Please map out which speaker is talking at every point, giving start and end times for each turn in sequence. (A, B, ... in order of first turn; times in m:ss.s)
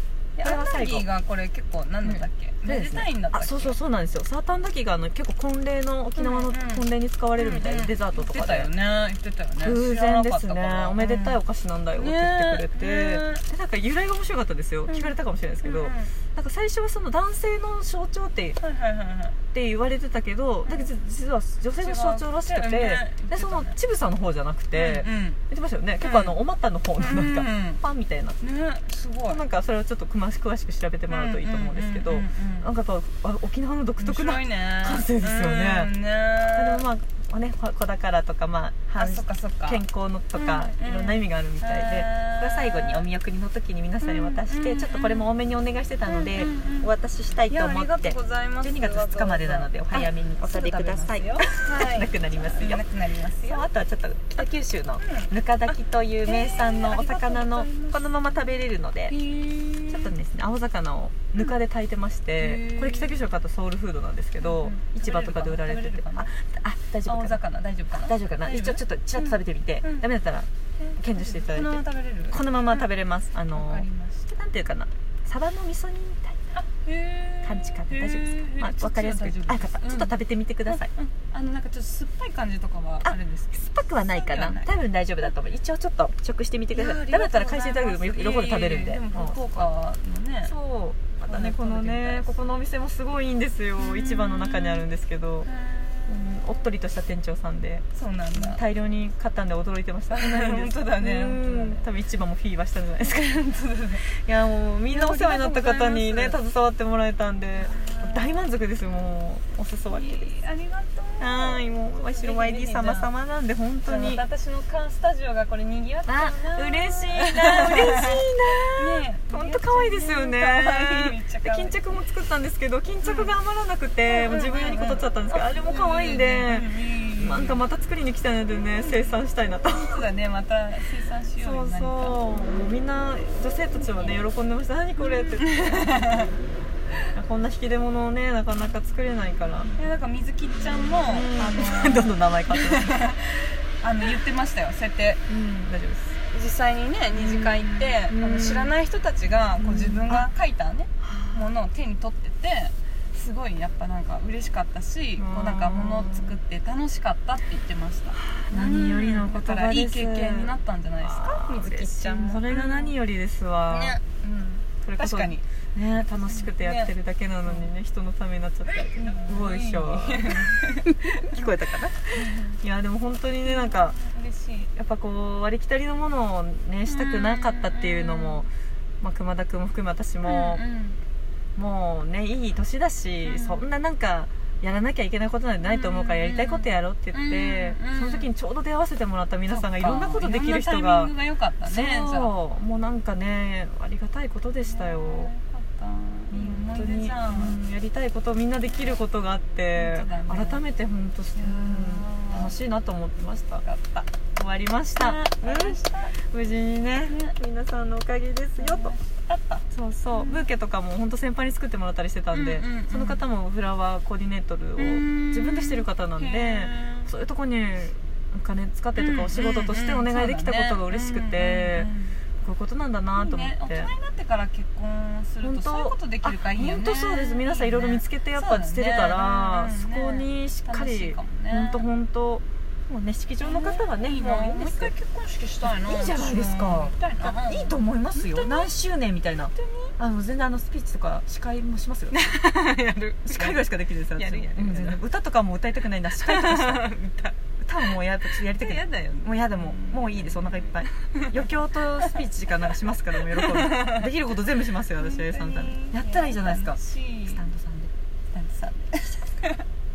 0:00.4-0:03.8 A
0:00.4-0:01.1 B
0:02.0-0:08.7 B
0:06.2-0:06.8 A
0:07.4-0:11.4 A
0:09.6-0:18.6 B
0:12.0-0:13.4 A
0:14.9-0:16.1 A
0:18.6-0:19.4 A
0:19.5-0:28.4 B
0:21.8-0:23.8 A
0:24.7-0:25.4 A
0:26.0-0:26.4 A
0:27.0-0:27.8 A
0:28.4-0:29.4 A
0:29.3-0:35.9 B
0:31.1-0:32.7 A
0:34.0-0:36.8 A
0:36.5-0:52.8 B
0:39.0-0:43.1 A
0:44.0-0:45.3 A
0:46.0-0:46.9 A
0:47.5-0:53.7 A
0:53.4-0:59.2 B
0:55.0-0:55.7 A
0:56.2-0:58.2 A
0:59.1-1:00.1 A
0:59.9-1:07.4 B
1:02.4-1:03.2 A
1:04.4-1:06.3 A
1:07.1-1:10.1 A
1:08.0-1:16.6 B
1:10.8-1:12.8 A
1:13.5-1:14.3 A
1:16.6-1:20.2 A
1:17.4-1:20.9 B
1:20.7-1:24.7 A
1:23.1-1:29.7 B
1:26.7-1:30.5 A
1:30.4-1:35.5 B
1:31.3-1:32.3 A
1:33.8-1:34.8 A
1:35.4-1:36.6 A
1:36.1-1:43.3 B
1:37.9-1:38.6 A
1:40.1-1:41.8 A
1:43.0-1:44.0 A
1:44.2-1:50.3 B
1:44.9-1:46.4 A
1:47.6-1:48.5 A
1:49.9-1:53.1 A
1:51.2-1:54.2 B
1:53.9-2:01.8 A
1:56.1-2:10.0 B
2:03.0-2:03.3 A
2:04.1-2:07.6 A
2:08.8-2:12.2 A
2:11.4-2:16.1 B
2:13.8-2:14.1 A
2:15.0-2:16.4 A
2:17.1-2:19.8 B
2:19.8-2:25.2 A
2:21.0-2:23.0 B
2:25.3-2:26.2 B
2:26.3-2:42.9 A
2:27.1-2:28.7 B
2:29.6-2:30.3 B
2:31.0-2:31.6 B
2:35.2-2:36.4 B
2:38.4-2:44.0 B
2:43.7-2:45.4 A
2:44.8-2:50.6 B
2:46.2-2:46.9 A
2:47.4-2:47.7 A
2:48.7-2:51.5 A
2:51.2-2:54.0 B
2:52.2-2:52.6 A
2:53.4-2:54.7 A
2:54.8-2:58.5 B
2:56.9-2:58.5 A
2:59.0-3:00.6 B
3:00.2-3:01.0 A
3:01.6-3:11.1 B
3:03.2-3:03.6 A
3:05.6-3:08.3 A
3:09.5-3:12.3 A
3:11.7-3:15.3 B
3:14.6-3:17.6 A
3:16.3-3:23.6 B
3:18.6-3:19.0 A
3:19.7-3:20.6 A
3:21.4-3:22.6 A
3:23.6-3:24.1 A
3:24.3-3:28.9 B
3:25.0-3:26.2 A
3:27.1-3:27.4 A
3:28.6-3:30.5 A
3:29.7-3:41.9 B
3:32.3-3:33.2 A
3:34.8-3:37.1 A
3:39.0-3:42.2 A
3:42.4-3:43.9 B
3:43.2-3:51.9 A
3:45.4-3:54.9 B
3:53.4-3:58.7 A
3:55.6-4:02.3 B
3:59.5-3:59.9 A
4:02.1-4:05.0 A
4:03.2-4:06.9 B
4:06.2-4:07.4 A
4:07.6-4:17.9 B
4:08.3-4:11.4 A
4:13.3-4:14.1 A
4:15.0-4:17.4 A
4:18.3-4:19.6 A